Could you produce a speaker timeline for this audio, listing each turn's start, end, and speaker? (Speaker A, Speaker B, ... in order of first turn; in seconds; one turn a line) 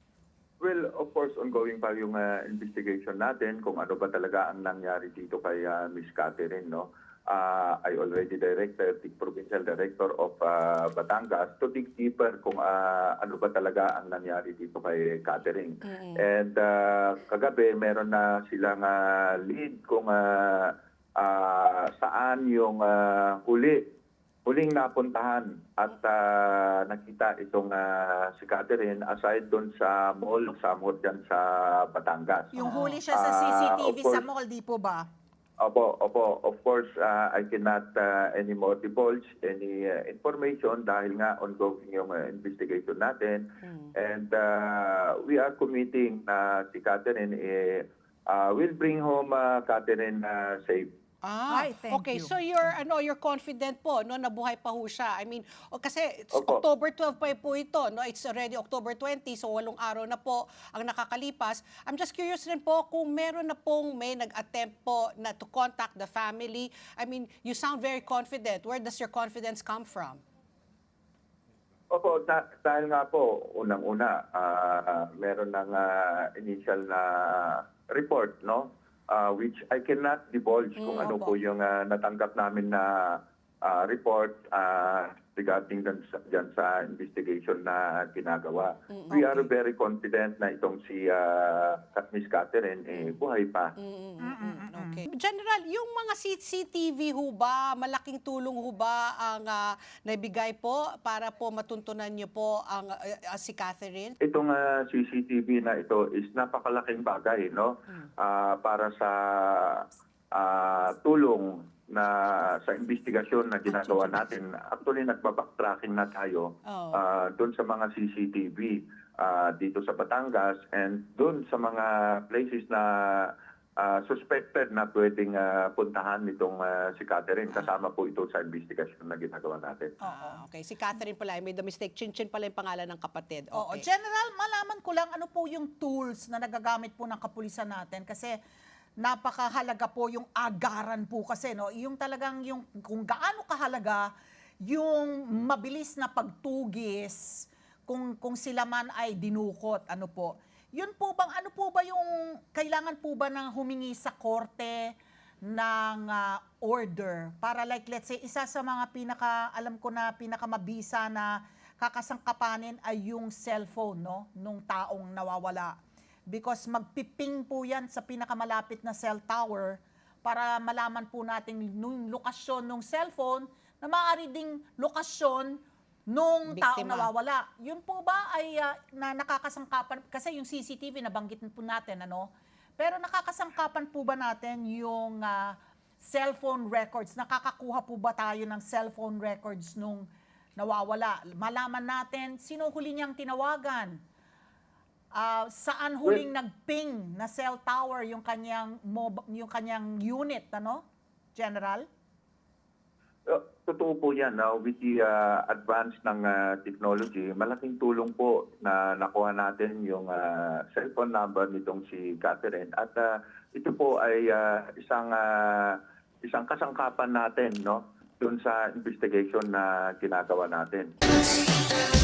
Speaker A: 0.6-23.8
Speaker B: 15.9-16.3
Speaker A: 24.4-34.2
Speaker C: 32.5-35.1
Speaker B: 32.6-33.0
Speaker A: 35.6-50.9
Speaker B: 51.2-70.2
Speaker C: 51.5-52.4
Speaker A: 56.3-56.6
Speaker A: 71.9-93.8
Speaker B: 80.8-81.3
Speaker B: 88.9-89.5
Speaker B: 92.9-93.2
Speaker B: 93.8-104.2
Speaker C: 94.2-95.0
Speaker A: 104.2-129.9
Speaker B: 113.7-114.3
Speaker B: 116.7-117.0
Speaker C: 130.0-130.4
Speaker B: 130.0-133.8
Speaker C: 133.5-138.4
Speaker C: 139.0-144.1
Speaker C: 144.7-165.8
Speaker C: 166.3-194.0
Speaker B: 176.5-177.1
Speaker C: 195.2-200.8
Speaker C: 201.3-201.9
Speaker A: 203.3-220.9